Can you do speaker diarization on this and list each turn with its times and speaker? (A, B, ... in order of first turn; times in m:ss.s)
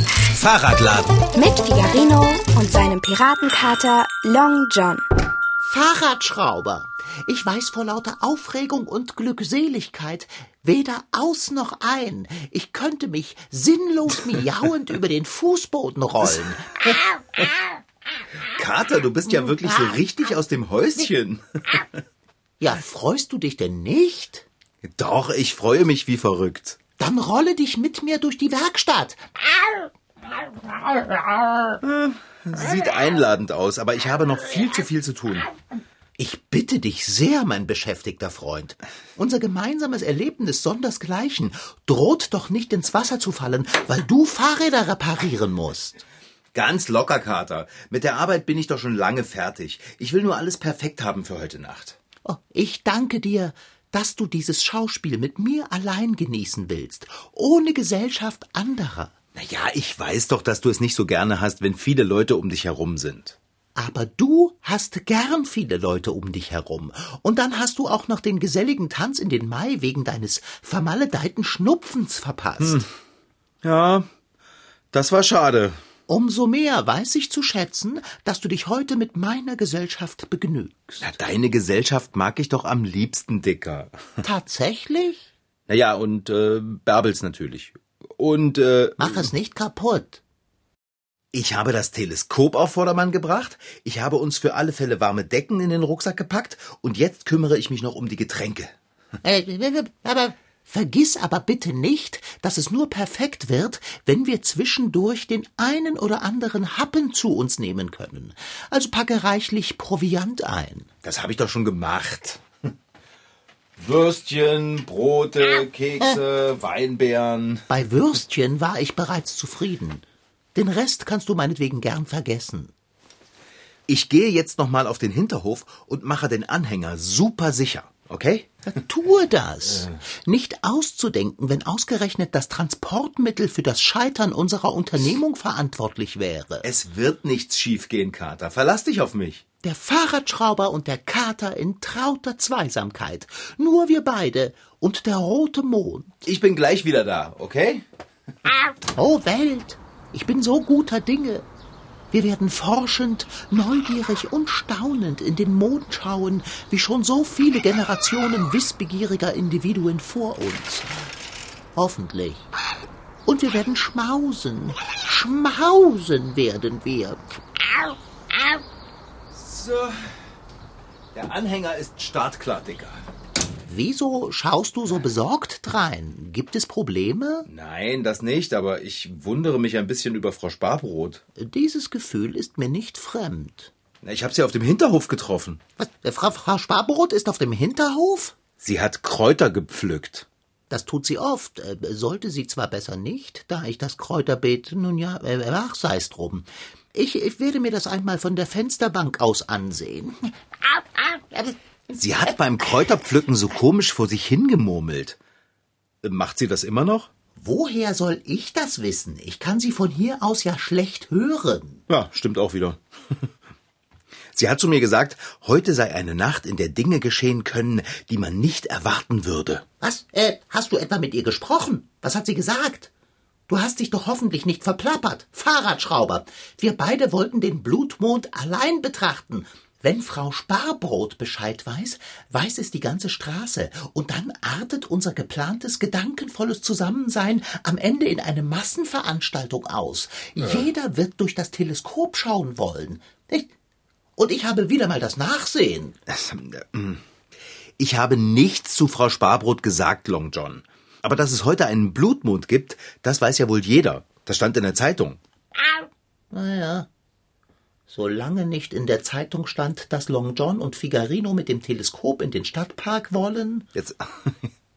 0:00.3-0:01.2 A
0:01.3-0:05.0 B
0:05.6-0:16.7 C
0:16.3-0:16.9 A
0:18.5-0:22.0 A
0:19.3-0:20.0 C
0:22.6-0:24.4 C
0:24.8-0:26.8 A
0:27.0-0:29.2 C
0:31.8-0:35.5 A
0:36.2-0:46.0 C
0:46.5-0:52.0 A
0:52.2-0:59.1 C
0:59.3-1:03.4 A
1:03.8-1:12.8 C
1:12.6-1:12.9 A
1:13.6-1:14.1 A
1:14.9-1:15.8 A
1:16.1-1:21.1 C
1:21.0-1:24.0 A
1:24.2-1:25.2 C
1:25.7-1:29.3 A
1:29.0-1:30.2 C
1:31.3-1:38.7 A
1:39.2-1:50.9 C
1:51.0-1:52.4 A
1:53.8-1:57.7 A
1:57.7-2:00.0 C
2:00.5-2:02.7 C
2:03.9-2:08.6 A
2:08.7-2:16.6 C
2:09.7-2:10.0 A
2:16.6-2:19.4 A
2:19.6-2:26.2 C
2:26.2-2:27.8 A
2:29.0-2:31.4 C
2:32.1-2:40.9 C
2:41.7-2:42.5 C
2:43.2-2:47.2 C
2:49.3-2:50.1 A
2:51.1-2:53.0 A
2:53.7-2:57.5 C
2:57.5-3:01.2 A
3:01.4-3:03.7 C
3:04.0-3:05.6 A
3:05.8-3:08.4 C
3:08.6-3:10.3 A
3:10.7-3:22.3 C
3:22.0-3:25.2 A
3:26.0-3:27.1 A
3:27.4-3:31.8 C
3:31.9-3:32.8 A
3:34.3-3:39.6 A
3:39.8-3:42.9 C
3:43.5-4:03.5 C
4:00.4-4:00.7 A
4:04.2-4:06.0 C
4:06.1-4:07.0 A
4:07.8-4:15.2 A
4:16.3-4:16.9 C
4:17.9-4:23.6 C
4:23.8-4:24.5 A